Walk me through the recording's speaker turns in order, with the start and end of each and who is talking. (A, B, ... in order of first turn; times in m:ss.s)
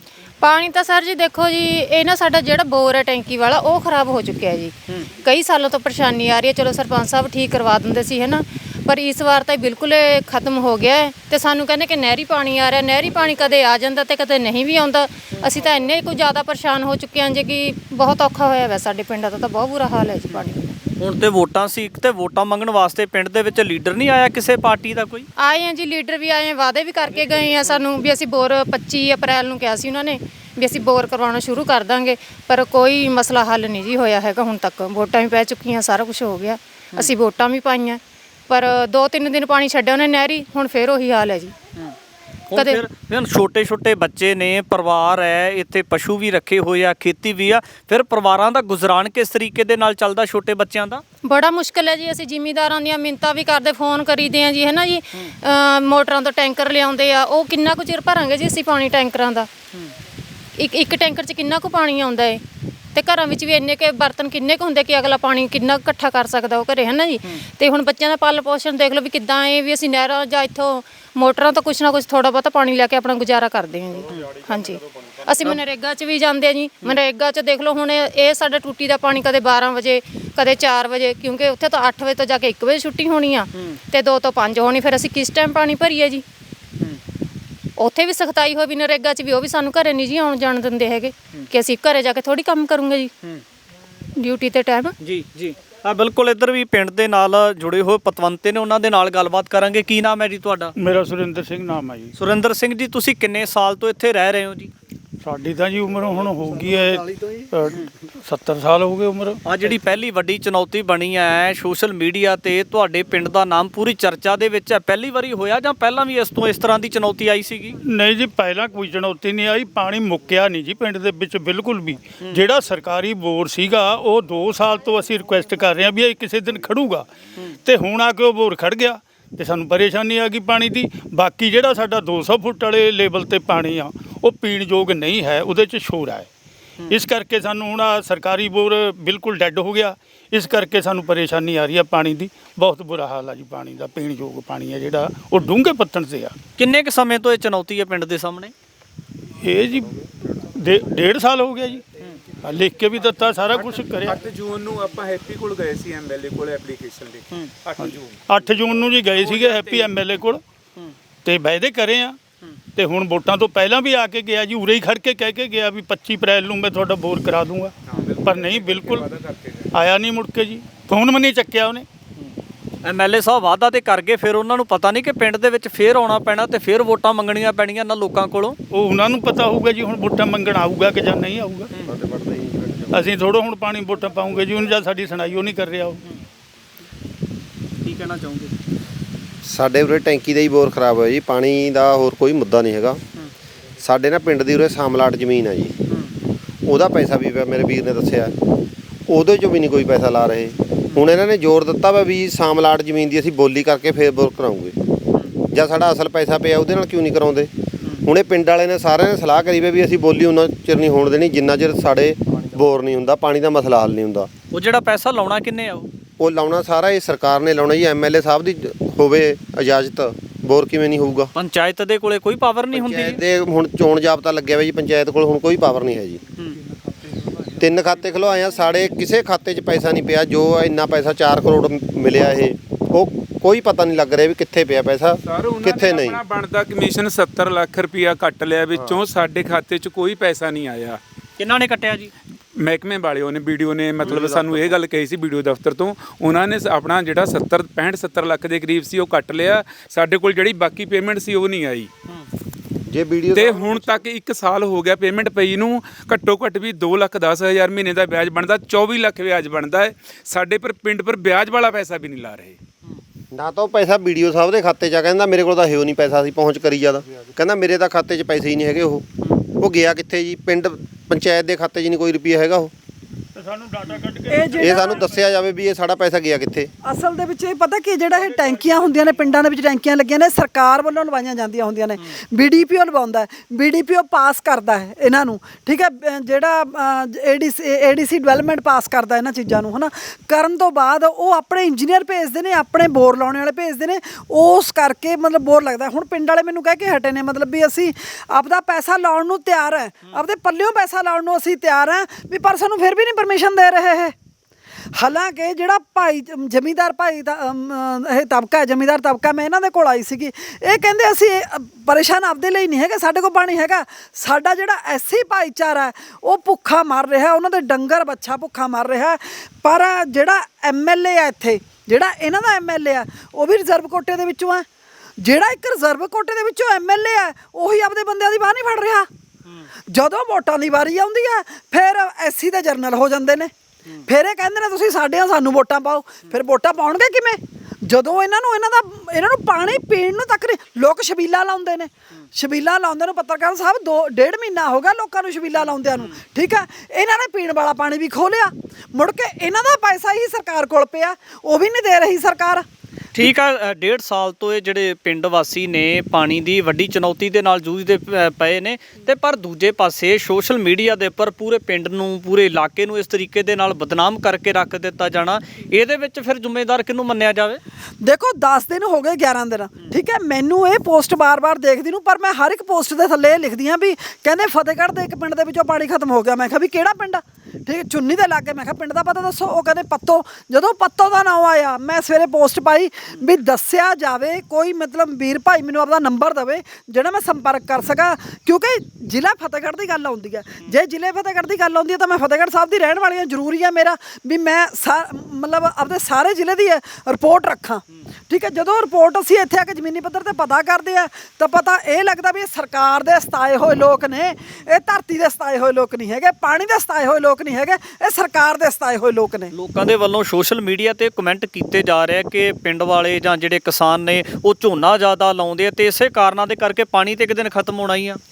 0:00.4-0:20.7 A
0:21.0-0:25.3 B
0:25.4-0:41.6 A
0:42.5-0:51.0 B
0:42.6-0:42.8 A
0:51.2-0:59.5 A
1:00.6-1:02.4 A
1:03.0-1:26.2 A
1:27.8-1:33.1 A
1:34.2-1:35.0 A
1:35.0-1:40.7 B
1:40.8-1:42.1 C
1:42.2-1:44.7 B
1:45.2-1:49.4 C
1:49.5-1:57.8 B
1:57.8-2:07.1 C
2:07.6-2:16.3 C
2:16.9-2:26.4 C
2:26.6-2:28.5 B
2:29.4-2:30.0 C
2:30.6-2:31.8 C
2:32.4-2:34.1 C
2:33.5-2:38.2 D
2:38.3-2:40.4 C
2:38.8-2:40.0 D
2:41.2-2:42.2 C
2:42.8-2:47.7 C
2:47.9-2:49.7 D
2:48.3-2:49.1 C
2:49.7-2:51.9 C
2:52.8-2:58.6 B
2:58.7-3:01.7 C
3:01.9-3:02.8 E
3:02.9-3:06.0 C
3:07.8-3:08.5 B
3:09.5-3:13.0 E
3:13.8-3:15.8 E
3:16.7-3:18.4 E
3:19.1-3:24.8 E
3:25.5-3:27.5 E
3:28.0-3:34.3 E
3:34.5-3:35.9 B
3:36.2-3:41.3 E
3:41.4-3:43.2 B
3:42.7-3:46.2 E
3:47.6-3:56.2 E
3:55.2-4:01.0 D
4:01.4-4:02.1 B
4:02.6-4:11.9 D
4:04.0-4:04.7 E
4:12.9-4:14.0 E
4:13.3-4:22.6 D
4:23.3-4:29.0 E
4:29.6-4:32.7 E
4:33.4-4:34.7 C
4:34.3-4:35.0 F
4:34.6-4:36.7 E
4:36.8-5:04.1 F
5:05.0-5:24.7 F
5:25.2-5:29.1 F
5:29.9-5:33.5 F
5:34.0-5:52.6 F
5:45.6-5:46.1 B
5:53.2-6:07.6 B
6:08.0-6:49.5 F
6:49.5-6:58.2 B